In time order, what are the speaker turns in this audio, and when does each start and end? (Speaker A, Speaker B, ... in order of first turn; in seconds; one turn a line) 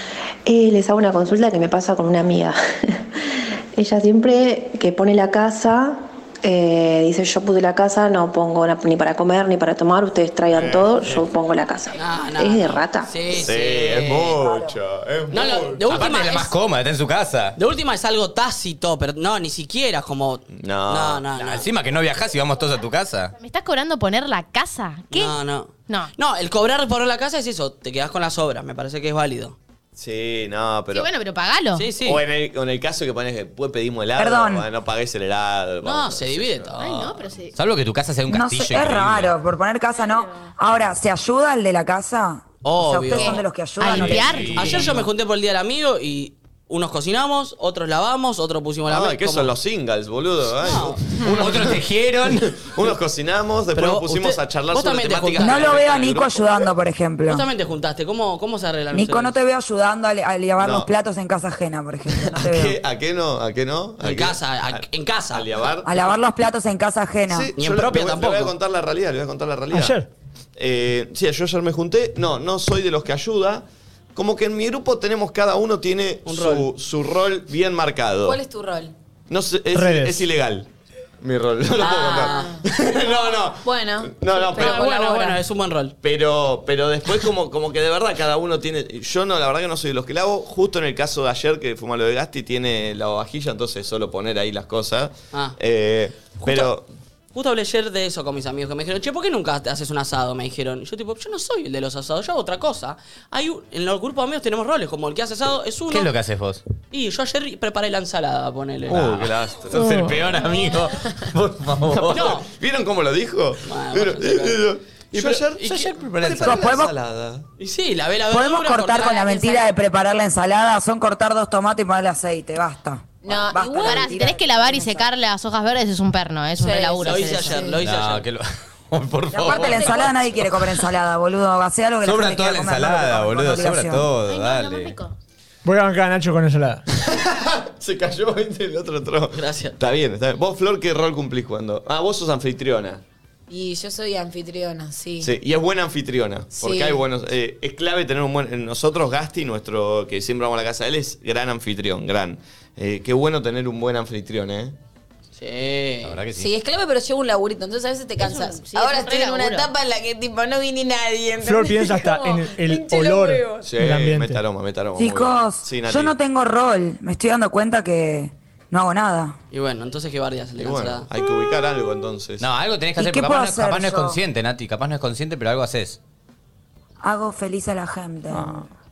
Speaker A: 0.5-13.2
Speaker B: 10.5-11.2
Speaker C: 11.9-14.4
Speaker B: 13.3-16.1
Speaker D: 14.4-14.8
Speaker C: 15.3-16.5
Speaker E: 15.9-17.6
Speaker C: 17.6-21.7
Speaker B: 20.5-21.3
Speaker E: 21.4-23.3
Speaker F: 23.4-26.1
Speaker C: 25.1-29.6
Speaker B: 29.9-31.1
Speaker F: 30.9-31.9
Speaker C: 31.7-32.2
Speaker B: 32.0-36.7
Speaker D: 34.1-34.7
Speaker C: 35.8-37.2
Speaker F: 36.8-37.5
Speaker E: 37.5-39.3
Speaker D: 38.3-44.5
Speaker C: 42.6-49.5
Speaker F: 43.2-44.9
Speaker E: 44.2-45.0
Speaker B: 48.9-56.6
Speaker C: 50.6-51.2
Speaker E: 51.4-52.6
Speaker C: 53.7-56.0
Speaker D: 55.4-57.5
Speaker C: 57.2-59.4
Speaker D: 58.9-62.8
Speaker B: 60.6-60.9
Speaker B: 62.3-66.0
Speaker C: 64.0-65.5
Speaker D: 65.8-67.5
Speaker B: 67.3-70.0
Speaker C: 67.5-68.5
Speaker G: 69.7-70.1
Speaker B: 70.6-73.6
Speaker B: 74.2-78.4
Speaker C: 76.2-76.7
Speaker H: 78.2-78.9
Speaker B: 79.3-80.7
Speaker G: 79.7-80.3
Speaker B: 81.2-84.9
Speaker C: 81.8-82.5
Speaker H: 81.8-82.7
Speaker H: 83.6-85.4
Speaker C: 84.5-85.9
Speaker B: 86.0-96.8
Speaker C: 96.4-96.7
Speaker C: 97.3-106.1
Speaker E: 105.9-106.6
Speaker C: 106.9-109.2
Speaker B: 108.9-110.4
Speaker E: 108.9-112.3
Speaker G: 109.7-110.1
Speaker B: 111.9-117.5
Speaker C: 112.1-112.5
Speaker C: 113.6-115.9
Speaker E: 115.7-116.8
Speaker D: 116.4-116.9
Speaker C: 117.6-119.3
Speaker D: 118.3-125.1
Speaker H: 119.2-119.6
Speaker H: 123.2-124.3
Speaker F: 123.8-127.8
Speaker H: 126.6-127.8
Speaker C: 127.0-128.3
Speaker E: 127.8-130.3
Speaker D: 129.3-134.1
Speaker E: 132.0-134.9
Speaker F: 134.3-135.1
Speaker G: 135.6-136.8
Speaker B: 137.0-143.0
Speaker C: 139.3-139.8
Speaker H: 143.5-145.3
Speaker B: 145.2-154.8
Speaker H: 146.6-147.0
Speaker C: 155.3-156.2
Speaker E: 156.0-156.5
Speaker H: 156.3-163.7
Speaker F: 158.2-159.7
Speaker G: 161.4-164.4
Speaker B: 163.6-166.1
Speaker D: 164.9-169.4
Speaker C: 169.5-171.1
Speaker B: 170.6-172.5
Speaker E: 172.4-176.0
Speaker D: 173.0-174.2
Speaker D: 177.0-178.6